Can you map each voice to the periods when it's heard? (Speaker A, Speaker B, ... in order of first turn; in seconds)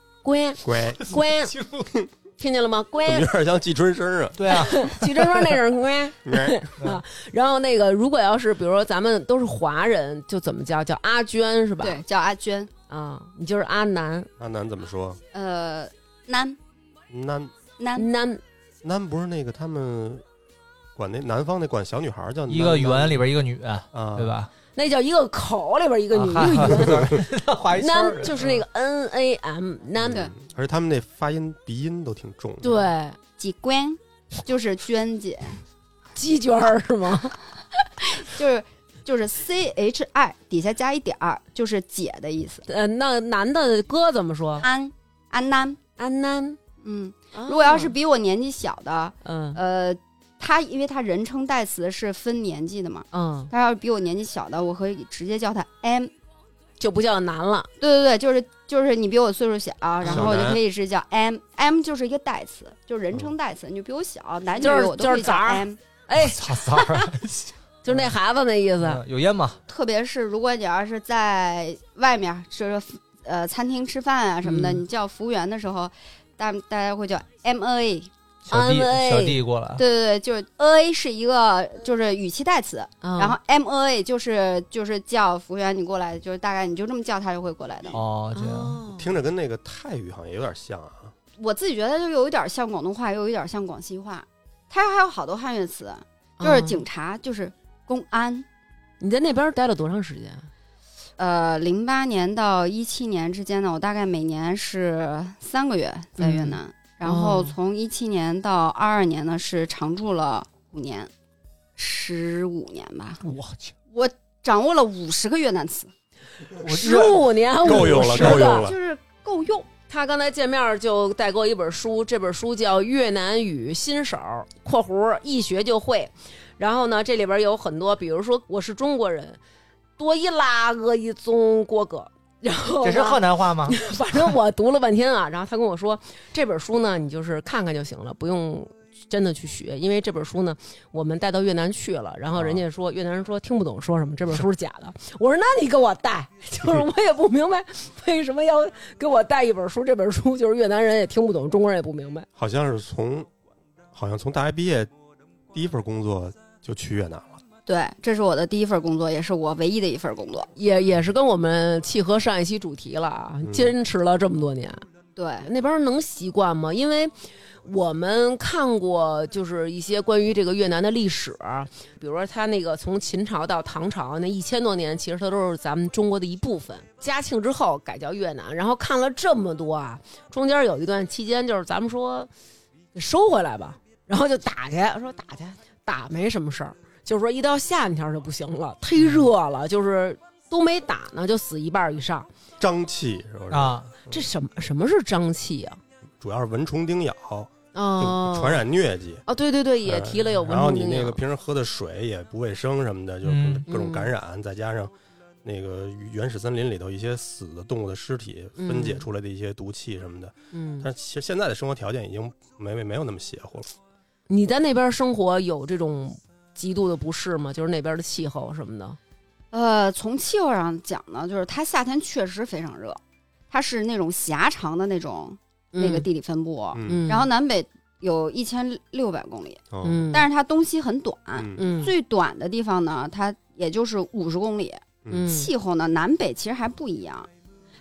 Speaker A: 0.2-1.5, 2.4-3.3, 4.6-12.0, 12.9-14.3, 17.9-18.4, 24.8-27.2, 27.8-30.2, 32.6-33.2, 36.1-37.4, 42.7-44.7, 46.0-46.6, 47.3-47.9, 49.2-49.6, 53.1-53.5, 56.8-57.7, 64.6-66.5, 67.8-69.0, 74.4-74.8, 78.5-79.4, 83.0-83.4, 88.3-89.1, 96.4-96.8, 99.0-100.5, 106.2-107.5, 116.6-118.7, 119.9-129.4, 130.0-152.3, 160.6-164.8, 165.4-167.1, 167.6-182.3, 182.9-192.3, 194.1-195.8, 197.7-198.6, 199.3-201.2, 203.7-204.1, 208.6-209.0, 210.5-210.9, 214.3-219.0, 225.7-226.1, 226.9-227.3, 229.8-230.3, 231.6-231.9, 235.1-235.5
Speaker B: 0.6-1.2, 3.0-4.7, 6.2-6.6, 14.4-15.2, 17.1-17.5, 18.8-20.2, 20.9-23.2, 23.9-24.3, 30.0-32.9, 60.0-60.6, 88.9-91.1, 117.6-118.8, 142.3-142.6, 152.3-153.3, 153.9-154.9, 155.5-157.4, 163.4-163.7, 192.6-194.2, 196.2-199.2, 199.8-204.9, 205.4-213.7, 226.7-227.1, 229.7-230.1, 231.3-231.7, 235.0-235.3
Speaker C: 1.2-1.9, 4.4-5.5, 22.5-24.5, 26.1-28.6, 66.1-68.1, 68.8-69.6, 78.5-79.8, 87.9-88.8, 113.2-113.7, 116.6-118.4, 132.8-133.8, 193.5-193.9, 203.2-203.6
Speaker D: 11.8-12.7, 15.3-16.6, 17.8-18.1, 33.4-35.6, 37.7-42.6, 44.6-45.8, 46.8-56.1, 57.8-65.8, 69.7-78.1, 79.8-88.0, 91.4-98.5, 101.2-111.1, 111.8-113.2, 113.9-115.9, 118.4-119.7, 157.7-160.5, 165.2-165.5, 219.5-223.0, 223.5-237.3